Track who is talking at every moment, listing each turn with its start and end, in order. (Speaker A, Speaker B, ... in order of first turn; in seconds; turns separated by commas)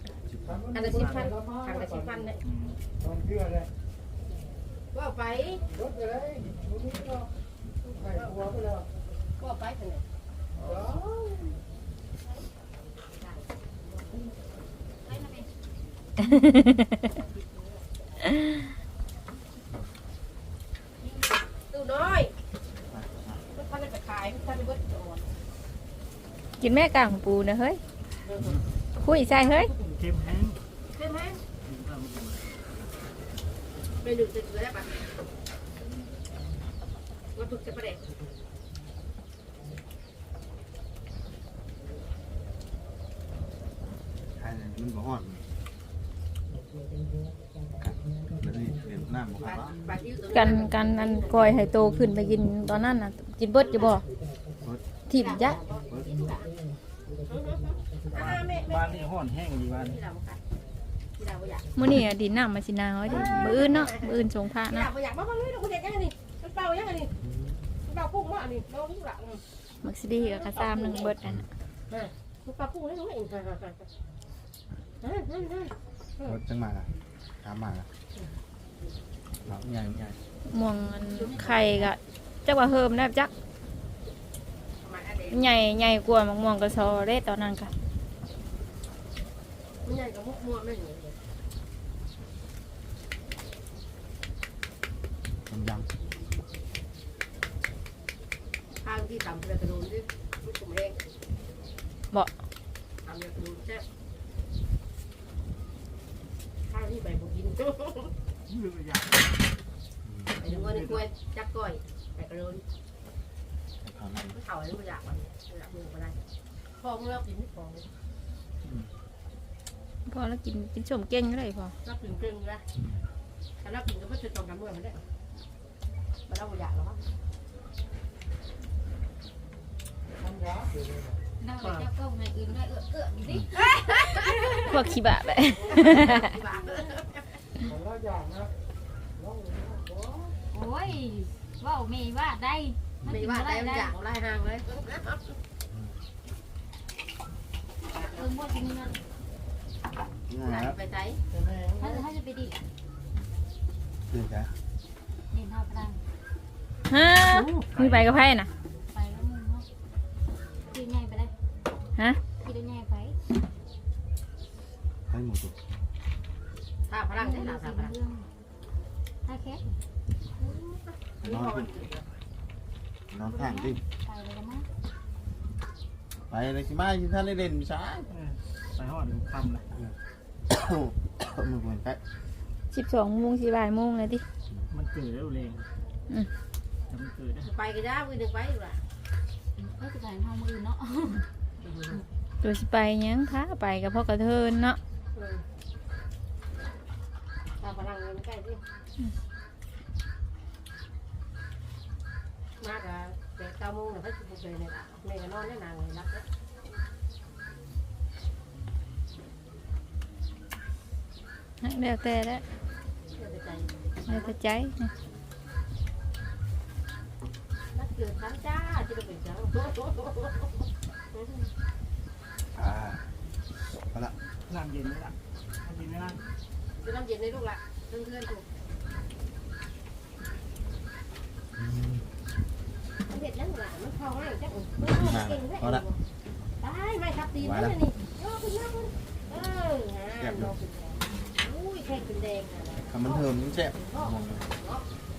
Speaker A: 0.2-0.8, Speaker B: 0.7-2.4, Speaker C: 0.8-1.8, Speaker C: 2.4-2.8, Speaker B: 4.9-5.6, Speaker B: 7.8-8.5, Speaker B: 9.4-10.0, Speaker D: 15.1-15.5, Speaker E: 16.2-17.0, Speaker B: 17.1-17.7, Speaker B: 21.7-22.3, Speaker A: 22.9-23.4, Speaker B: 23.5-25.3, Speaker E: 26.6-27.8, Speaker B: 28.2-28.6, Speaker E: 29.0-29.7, Speaker C: 29.7-30.6, Speaker B: 30.9-31.4, Speaker C: 31.6-32.4, Speaker B: 34.0-35.1, Speaker B: 37.3-38.0, Speaker A: 44.4-45.4, Speaker A: 47.8-49.7, Speaker B: 49.4-51.6, Speaker E: 50.3-54.0, Speaker B: 53.6-54.0, Speaker E: 55.1-55.5, Speaker B: 55.1-56.5, Speaker B: 57.3-59.1, Speaker C: 58.6-60.0, Speaker B: 59.7-60.4, Speaker B: 61.2-61.7, Speaker E: 61.8-64.9, Speaker B: 63.0-67.1, Speaker C: 63.1-63.5, Speaker A: 67.2-67.5, Speaker B: 67.8-69.4, Speaker E: 69.8-71.5, Speaker B: 70.1-71.1, Speaker B: 71.9-73.8, Speaker B: 75.0-76.4, Speaker A: 76.2-76.9, Speaker A: 77.4-77.9, Speaker A: 79.5-80.2, Speaker E: 80.5-83.3, Speaker B: 81.2-81.9, Speaker B: 84.8-85.5, Speaker E: 85.3-87.7, Speaker B: 89.8-91.2, Speaker A: 95.5-95.9, Speaker B: 98.8-101.0, Speaker B: 103.0-103.8, Speaker B: 106.7-108.1, Speaker C: 108.5-109.2, Speaker A: 110.0-110.3, Speaker B: 110.4-112.6, Speaker C: 110.5-111.1, Speaker A: 113.8-114.4, Speaker B: 114.3-116.2, Speaker B: 116.8-117.9, Speaker E: 120.0-121.7, Speaker B: 121.8-122.6, Speaker B: 123.6-125.0, Speaker B: 126.3-127.0, Speaker D: 131.4-134.6, Speaker B: 131.6-131.9, Speaker B: 133.5-134.9, Speaker E: 134.7-136.3, Speaker B: 135.6-137.4, Speaker D: 140.5-143.9, Speaker B: 143.1-145.3, Speaker B: 147.9-148.3, Speaker D: 148.0-149.0, Speaker A: 150.3-150.8, Speaker B: 150.4-151.2, Speaker D: 151.6-152.6, Speaker A: 154.1-154.5, Speaker D: 155.3-156.0, Speaker E: 156.9-158.5, Speaker C: 157.3-158.2, Speaker D: 158.9-159.7, Speaker D: 160.7-161.3, Speaker D: 162.4-163.2, Speaker A: 165.1-165.5, Speaker B: 166.9-167.9, Speaker D: 167.2-168.2, Speaker D: 169.2-169.6, Speaker B: 170.4-172.1, Speaker A: 171.2-171.7, Speaker A: 173.1-173.8, Speaker D: 173.2-174.7, Speaker A: 176.3-178.1, Speaker C: 178.1-179.7, Speaker A: 180.5-182.0, Speaker E: 182.7-184.2, Speaker C: 184.7-185.7, Speaker C: 186.9-187.5, Speaker B: 187.4-188.8, Speaker D: 189.6-191.3, Speaker B: 191.6-192.0, Speaker E: 192.4-194.8, Speaker B: 195.1-195.4, Speaker B: 197.6-198.6, Speaker B: 202.6-206.2, Speaker E: 211.6-212.4, Speaker B: 213.1-214.3, Speaker E: 214.1-214.9, Speaker B: 217.7-221.5, Speaker A: 222.5-223.1, Speaker A: 223.7-224.1, Speaker C: 224.5-226.2, Speaker B: 226.8-228.4, Speaker A: 231.6-232.0, Speaker B: 233.1-236.0, Speaker A: 234.8-235.8, Speaker B: 236.6-243.2, Speaker A: 237.4-237.8, Speaker A: 240.2-240.5, Speaker A: 242.8-244.5, Speaker B: 243.8-244.8